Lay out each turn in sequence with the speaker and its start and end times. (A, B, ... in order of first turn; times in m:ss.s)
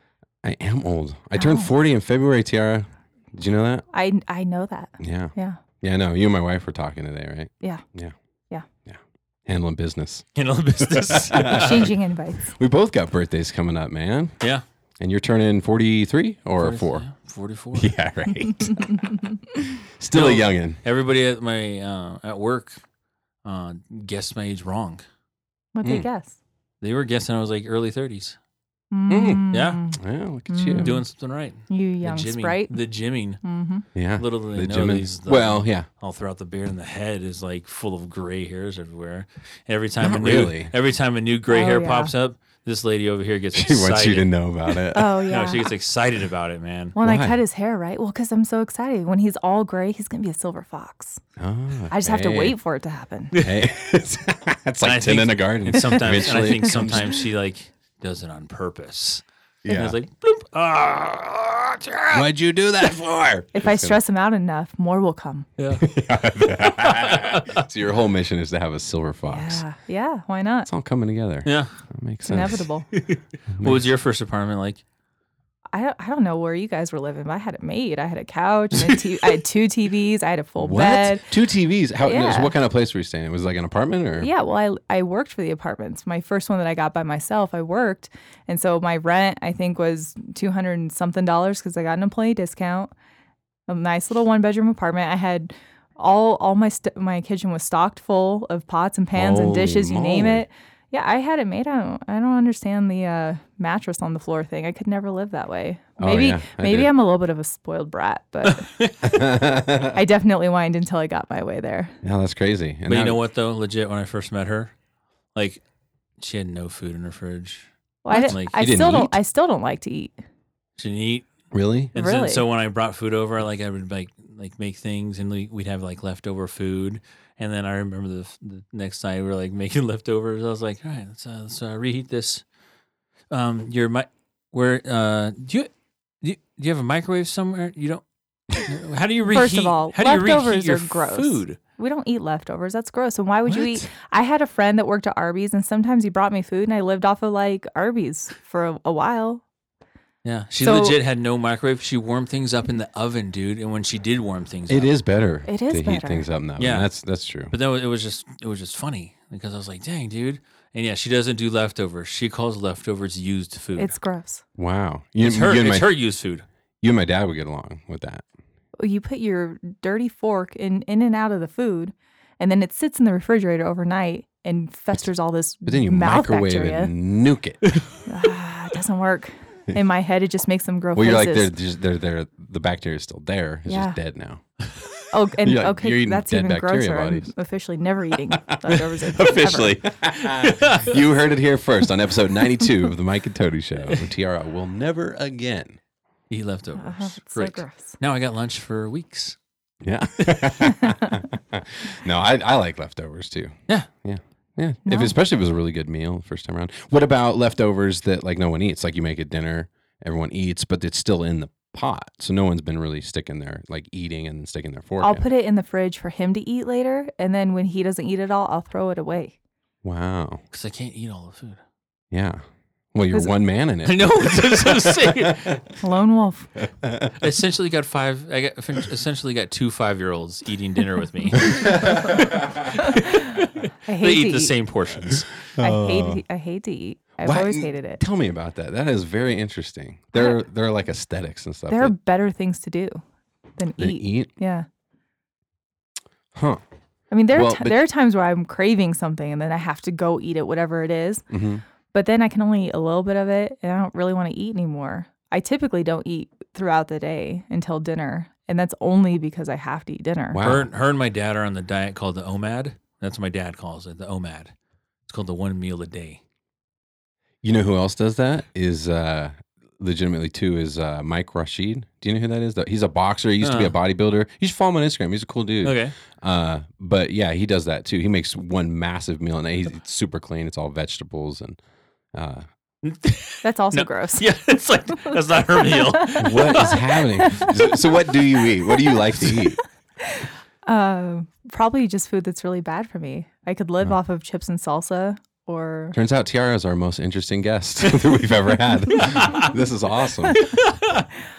0:00.4-0:03.8 A
0:01.3-0:01.7 B
0:03.9-0:05.6 B
0:05.0-0:08.1 A
0:08.8-0:10.2 A
0:10.4-0:11.9 C
0:10.8-0:11.9 A
0:11.4-0:12.5 B
0:12.5-0:14.4 A
0:15.0-0:17.0 A
0:16.6-0:17.9 C
0:17.7-0:19.2 A
0:19.8-0:20.8 A
0:20.1-0:22.8 C
0:23.4-0:25.0 C
0:25.7-0:26.4 B
0:26.8-0:28.4 C
0:28.9-0:31.0 B
0:29.1-0:31.0 A
0:29.5-0:29.8 C
0:30.8-0:33.4 C
0:31.7-0:32.8 B
0:33.4-0:33.8 B
0:33.9-0:35.9 A
0:34.2-0:47.0 C
0:40.0-0:40.7 A
0:41.5-0:42.1 B
0:43.5-0:45.1 A
0:44.9-0:45.7 B
0:47.0-0:51.2 B
0:47.0-0:47.4 A
0:51.4-0:52.6 A
0:51.9-0:53.3 B
0:53.3-0:53.6 C
0:53.4-0:57.2 A
0:54.8-1:02.2 C
0:56.6-0:57.0 B
0:59.6-1:00.0 A
1:02.1-1:04.0 A
1:03.5-1:05.5 B
1:05.6-1:05.9 C
1:05.8-1:09.6 A
1:06.5-1:07.6 C
1:09.3-1:10.7 B
1:10.7-1:12.6 A
1:11.4-1:11.8 C
1:12.3-1:12.9 B
1:12.9-1:14.8 C
1:13.5-1:13.8 A
1:15.7-1:21.3 B
1:20.6-1:24.3 A
1:22.0-1:22.5 B
1:24.2-1:32.9 B
1:33.7-1:48.7 B
1:39.1-1:40.4 A
1:46.0-1:46.9 A
1:48.4-1:49.1 C
1:49.0-1:50.0 A
1:49.9-1:52.0 B
1:52.0-1:53.2 A
1:52.9-1:54.7 C
1:55.3-1:55.6 C
1:56.2-1:58.9 C
1:58.0-2:00.1 B
1:58.2-1:59.2 A
2:00.8-2:01.3 C
2:01.5-2:01.9 A
2:01.9-2:12.4 C
2:01.9-2:02.4 B
2:13.3-2:15.7 C
2:16.2-2:18.0 C
2:18.5-2:21.6 C
2:19.3-2:29.4 B
2:23.5-2:23.9 A
2:30.2-2:34.9 C
2:30.6-2:31.0 B
2:34.7-2:37.5 A
2:35.5-2:36.2 B
2:36.6-2:36.9 C
2:37.5-2:43.9 C
2:43.8-2:44.4 B
2:44.6-2:45.9 A
2:45.2-2:46.4 C
2:46.8-2:48.2 A
2:48.8-2:56.9 B
2:55.6-2:57.7 A
2:58.0-3:01.5 B
3:00.9-3:04.4 A
3:03.7-3:04.0 B
3:05.1-3:09.8 B
3:05.4-3:07.3 A
3:08.3-3:15.8 A
3:10.2-3:10.9 C
3:16.3-3:19.4 C
3:16.8-3:18.0 B
3:19.8-3:35.2 A
3:20.8-3:21.1 B
3:24.8-3:25.1 B
3:35.0-3:39.4 B
3:39.8-3:40.4 A
3:40.5-3:41.6 C
3:42.1-3:42.4 A
3:42.9-3:45.4 A
3:43.8-3:45.6 C
3:45.8-3:46.5 B
3:46.6-3:47.2 A
3:47.2-3:55.3 C
3:51.4-3:52.6 A
3:52.8-3:53.2 B
3:53.8-3:54.5 B
3:55.6-3:56.2 A
3:55.6-3:58.0 B
3:57.2-4:01.9 A
4:01.7-4:03.0 B
4:03.6-4:04.6 B
4:03.8-4:04.3 A
4:06.3-4:06.6 A
4:07.1-4:11.2 B
4:07.3-4:07.8 A
4:11.3-4:11.6 A
4:11.9-4:20.4 B
4:20.3-4:20.7 A
4:20.4-4:24.5 C
4:25.1-4:26.2 C
4:27.4-4:41.6 A
4:33.4-4:33.7 C
4:35.6-4:35.9 C
4:42.1-4:42.4 A
4:42.8-4:47.0 C
4:43.4-4:44.3 B
4:45.8-4:47.6 B
4:46.2-4:49.6 A
4:50.0-4:56.0 B
4:55.9-5:00.5 A
4:59.0-4:59.5 C
5:00.4-5:01.0 C